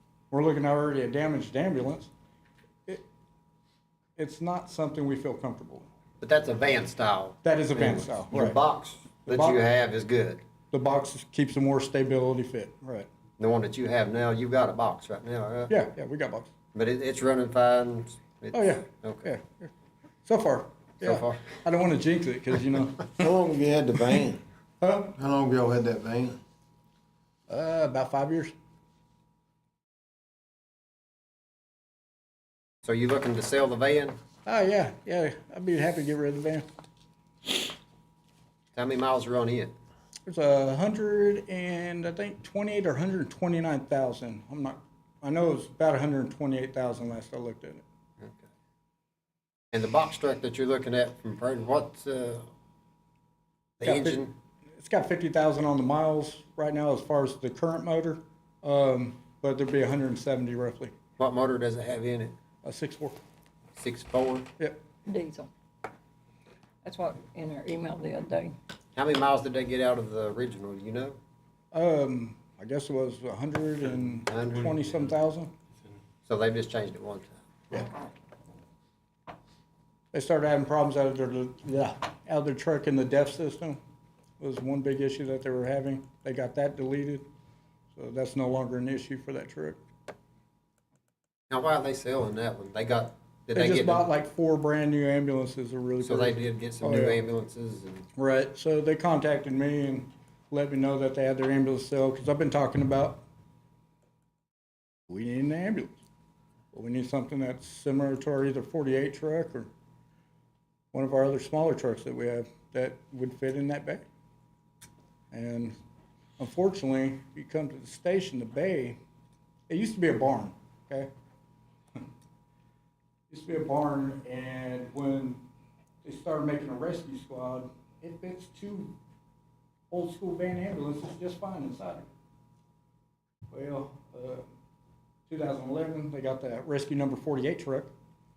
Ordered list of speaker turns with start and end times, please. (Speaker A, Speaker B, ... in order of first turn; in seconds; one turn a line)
Speaker A: 0.3-2.1
Speaker A: 4.2-5.9
Speaker B: 6.2-10.4
Speaker A: 7.4-8.6
Speaker A: 9.3-9.6
Speaker A: 10.7-13.1
Speaker B: 13.4-15.8
Speaker A: 15.7-16.5
Speaker B: 16.7-19.3
Speaker A: 18.5-19.7
Speaker A: 20.2-23.3
Speaker B: 21.0-21.5
Speaker C: 23.2-24.4
Speaker A: 24.8-25.1
Speaker C: 25.1-26.4
Speaker A: 27.5-28.5
Speaker B: 32.8-34.2
Speaker A: 34.5-36.6
Speaker B: 38.7-39.7
Speaker A: 40.3-47.8
Speaker B: 49.7-52.5
Speaker B: 53.8-54.3
Speaker A: 53.8-54.2
Speaker A: 54.8-60.9
Speaker B: 61.2-62.3
Speaker A: 62.6-63.2
Speaker B: 63.8-64.5
Speaker D: 65.1-65.5
Speaker D: 66.8-68.6
Speaker B: 69.0-71.2
Speaker A: 71.7-75.5
Speaker B: 74.1-75.0
Speaker B: 76.2-77.4
Speaker A: 80.1-83.8
Speaker A: 84.4-87.3
Speaker A: 87.9-89.8
Speaker B: 91.5-94.0
Speaker A: 93.5-97.2
Speaker B: 96.0-98.1
Speaker A: 98.2-103.2
Speaker A: 105.1-106.0
Speaker A: 106.7-109.7
Speaker A: 110.9-114.0
Speaker A: 115.3-115.8
Speaker A: 116.4-119.0
Speaker A: 119.7-121.1
Speaker A: 123.3-125.4
Speaker A: 126.0-128.9
Speaker A: 129.9-132.1
Speaker A: 133.5-134.4
Speaker A: 135.3-137.9